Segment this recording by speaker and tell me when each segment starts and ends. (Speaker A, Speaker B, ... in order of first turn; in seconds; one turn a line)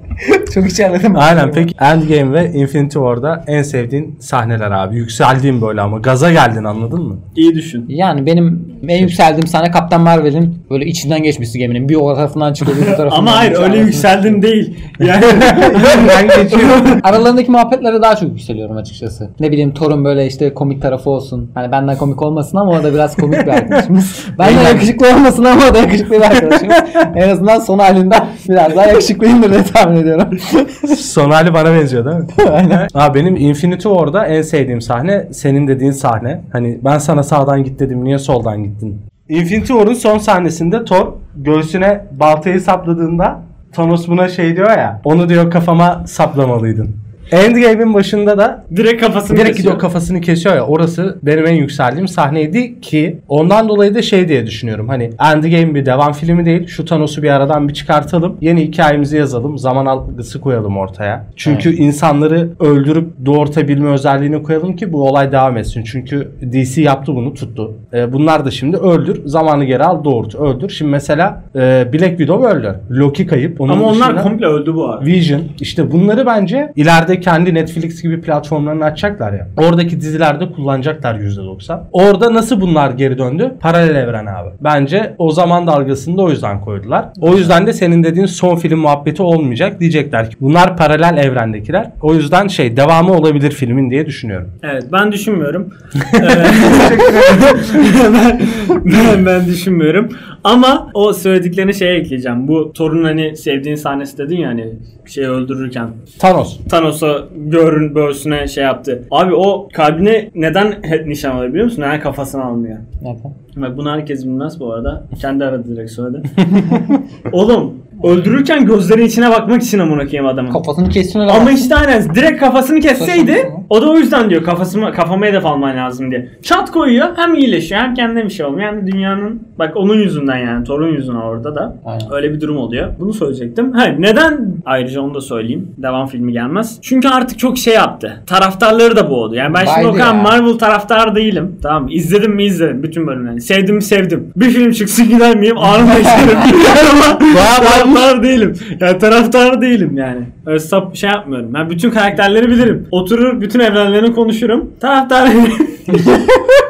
Speaker A: 0.2-1.7
Speaker B: 1.1-7.2
Speaker C: 7.3-7.9
Speaker A: 7.9-14.4
Speaker C: 12.7-17.0
Speaker B: 15.3-17.0
Speaker A: 17.0-31.0
Speaker C: 24.4-24.9
Speaker B: 30.9-48.6
Speaker A: 32.4-32.9
Speaker C: 48.7-49.8
Speaker B: 49.3-74.3
Speaker C: 73.7-75.1
Speaker B: 75.0-94.5
Speaker C: 94.6-106.0
Speaker B: 96.1-97.8
Speaker B: 106.2-106.6
Speaker C: 106.7-112.8
Speaker A: 113.0-113.3
Speaker C: 113.5-120.6
Speaker A: 120.5-121.7
Speaker C: 121.3-156.1
Speaker A: 123.0-123.6
Speaker A: 131.8-132.1
Speaker A: 139.5-140.4
Speaker B: 147.3-148.1
Speaker A: 155.9-156.4